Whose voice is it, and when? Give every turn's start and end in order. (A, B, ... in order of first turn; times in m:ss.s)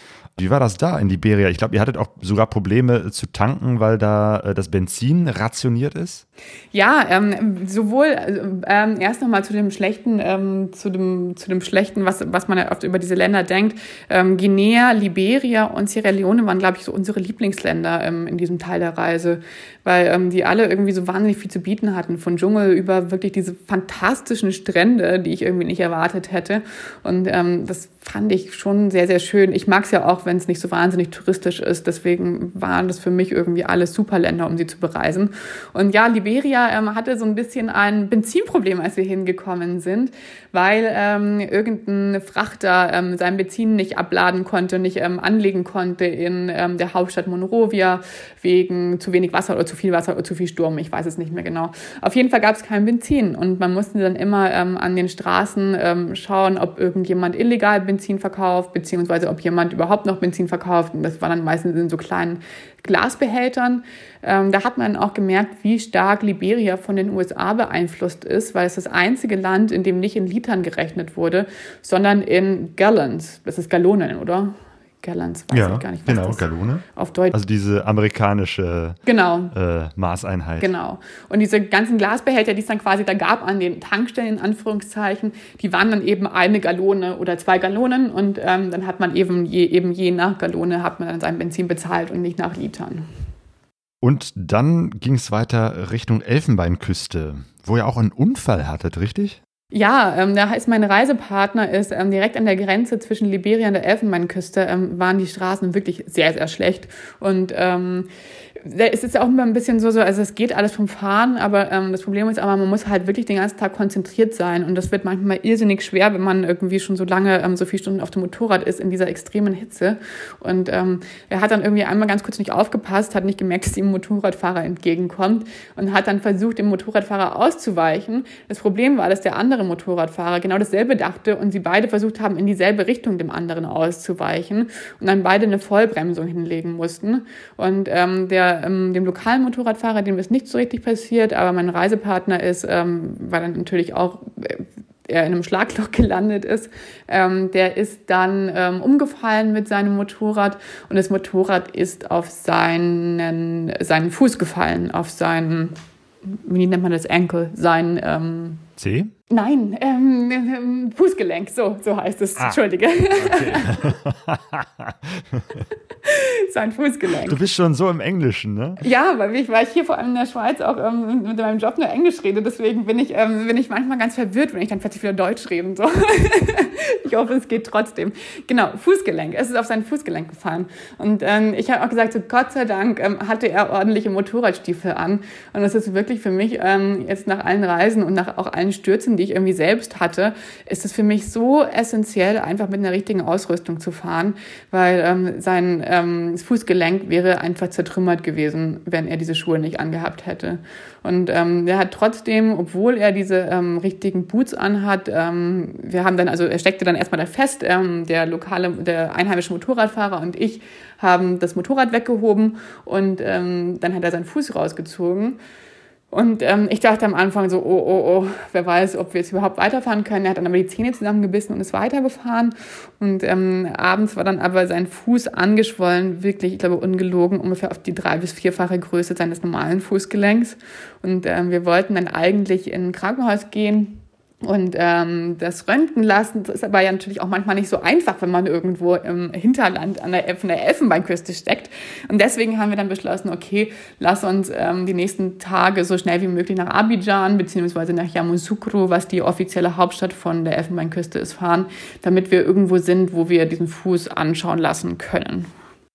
0:00.4-0:06.2 A
0:06.7-1:17.4 B
1:15.5-1:19.0 A
1:19.1-1:19.5 B
1:19.5-1:20.7 A
1:20.6-1:33.1 B
1:34.0-1:39.4 A
1:39.7-1:48.1 B
1:48.6-2:38.6 B
2:38.8-2:39.1 A
2:39.3-2:43.9 B
2:43.2-2:45.6 A
2:46.0-2:47.4 B
2:47.2-2:48.8 A
2:48.8-3:35.4 B
3:36.1-4:15.5 B